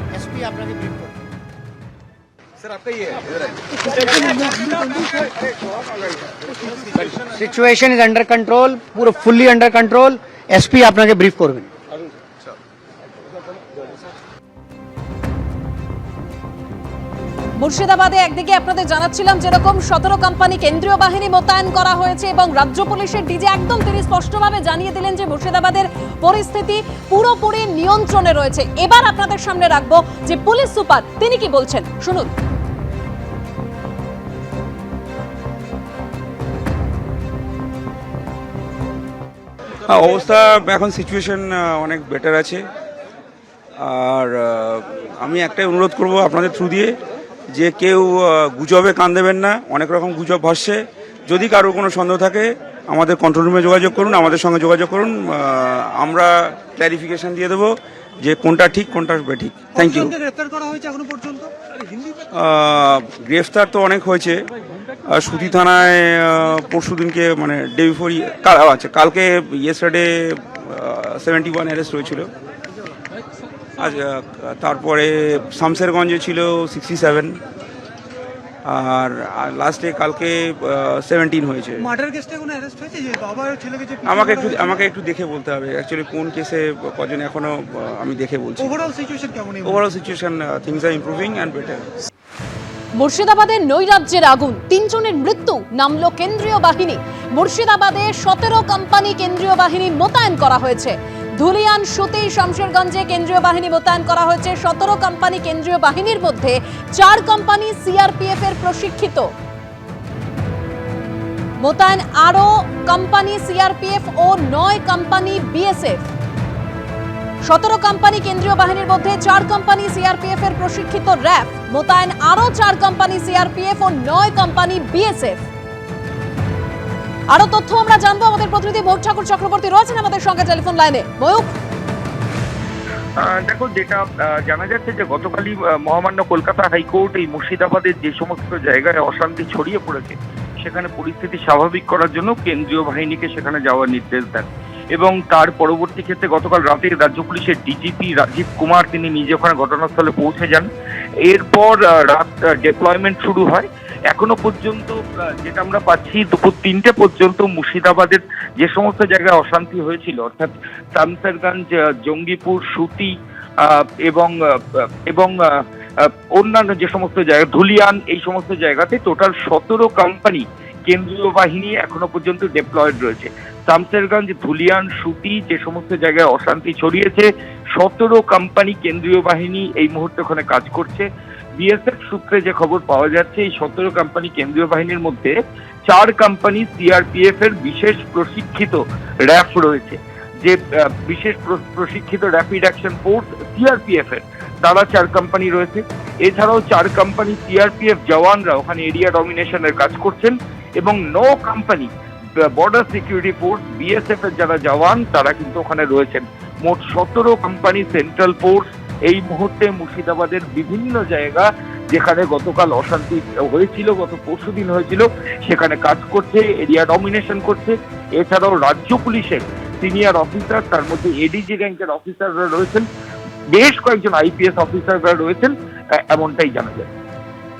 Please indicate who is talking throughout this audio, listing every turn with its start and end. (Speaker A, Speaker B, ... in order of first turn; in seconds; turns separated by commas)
Speaker A: 0.1-1.1, Speaker A: 7.0-11.7, Speaker B: 17.6-32.3, Speaker C: 39.9-42.6, Speaker C: 43.8-46.9, Speaker C: 47.5-60.1, Speaker D: 59.8-61.5, Speaker C: 62.3-64.4, Speaker C: 65.1-72.3, Speaker C: 73.8-77.4, Speaker C: 78.7-81.9, Speaker D: 81.8-84.8, Speaker C: 84.1-88.8, Speaker D: 88.6-89.8, Speaker C: 89.6-91.8, Speaker B: 93.0-109.3, Speaker B: 111.6-116.0, Speaker B: 117.5-125.4, Speaker B: 127.3-131.5, Speaker E: 133.2-150.7, Speaker E: 151.3-163.1, Speaker E: 163.6-165.3, Speaker E: 166.0-181.1, Speaker E: 181.6-185.3, Speaker E: 185.9-201.9, Speaker E: 202.6-222.9, Speaker E: 223.5-225.5, Speaker E: 226.1-226.9